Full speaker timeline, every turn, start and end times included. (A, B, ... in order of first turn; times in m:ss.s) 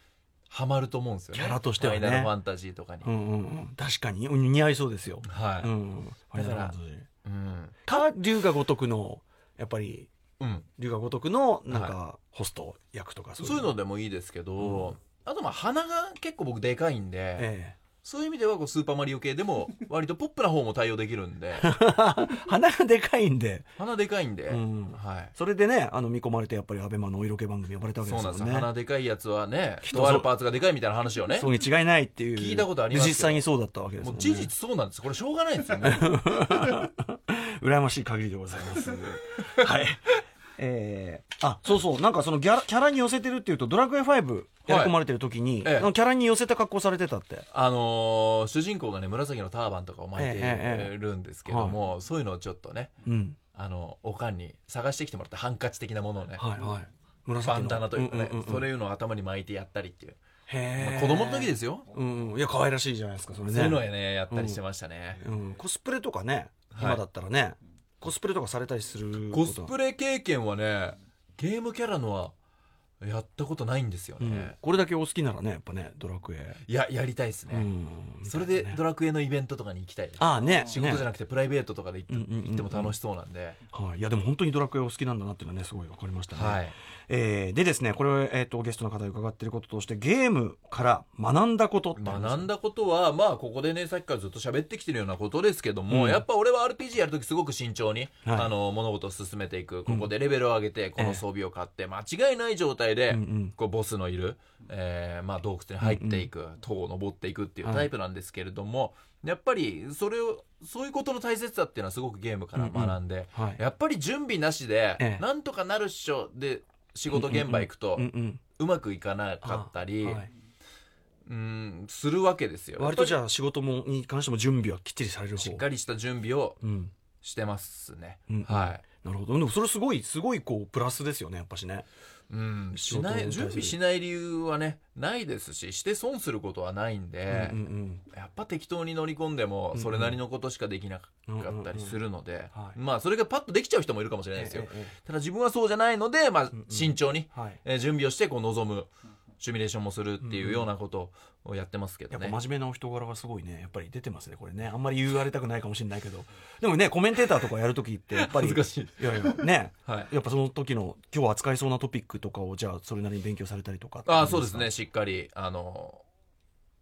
0:00.5-0:03.1 A
0:01.3-0:02.3 B
0:03.0-0:07.1 B
0:05.2-0:05.7 A
0:06.3-0:08.0 A
0:07.9-0:10.1 B
0:10.4-0:10.7 A
0:10.8-0:13.7 B
0:11.7-0:12.0 A
0:13.4-0:17.5 A
0:14.6-0:14.9 B
0:17.4-0:17.8 B
0:18.0-0:21.7 A
0:21.6-0:23.7 B
0:23.8-0:25.3 A
0:24.5-0:28.7 B
0:28.0-0:31.5 A
0:29.8-0:30.3 B
0:31.4-0:34.5 B
0:32.4-0:33.4 A
0:34.0-0:36.4 A
0:35.8-0:47.4 B
0:44.7-0:45.0 A
0:45.6-0:45.9 A
0:47.5-0:52.9 A
0:50.1-0:50.9 B
0:51.4-0:51.8 B
0:53.0-0:53.4 B
0:53.5-0:56.4 A
0:56.4-0:58.7 B
0:57.4-1:00.2 A
1:00.5-1:04.6 B
1:00.8-1:01.9 A
1:03.5-1:05.2 A
1:05.2-1:09.7 B
1:06.7-1:07.0 A
1:09.3-1:12.3 A
1:13.0-1:14.6 A
1:14.2-1:16.6 B
1:16.6-1:17.7 A
1:17.5-1:18.8 B
1:18.2-1:23.6 A
1:20.2-1:21.1 B
1:22.1-1:22.9 B
1:23.7-1:32.5 B
1:26.3-1:26.7 A
1:32.0-2:00.2 A
1:35.9-1:36.2 B
1:38.2-1:38.5 B
1:41.0-1:41.2 B
1:43.1-1:43.5 B
1:45.8-1:46.3 B
1:47.6-1:47.9 B
1:52.6-1:53.6 B
1:55.0-1:55.2 B
1:57.1-1:58.4 B
1:59.4-2:00.3 B
2:01.2-2:03.2 A
2:02.8-2:05.6 B
2:05.4-2:06.6 A
2:06.6-2:06.9 B
2:07.2-2:08.8 A
2:08.3-2:11.8 B
2:12.3-2:32.4 A
2:12.7-2:13.8 B
2:17.3-2:18.0 B
2:19.7-2:20.2 B
2:21.3-2:22.0 B
2:22.5-2:22.8 B
2:24.4-2:24.9 B
2:26.5-2:27.6 B
2:30.2-2:30.7 B
2:32.1-2:44.7 B
2:38.1-2:40.1 A
2:44.0-2:46.0 A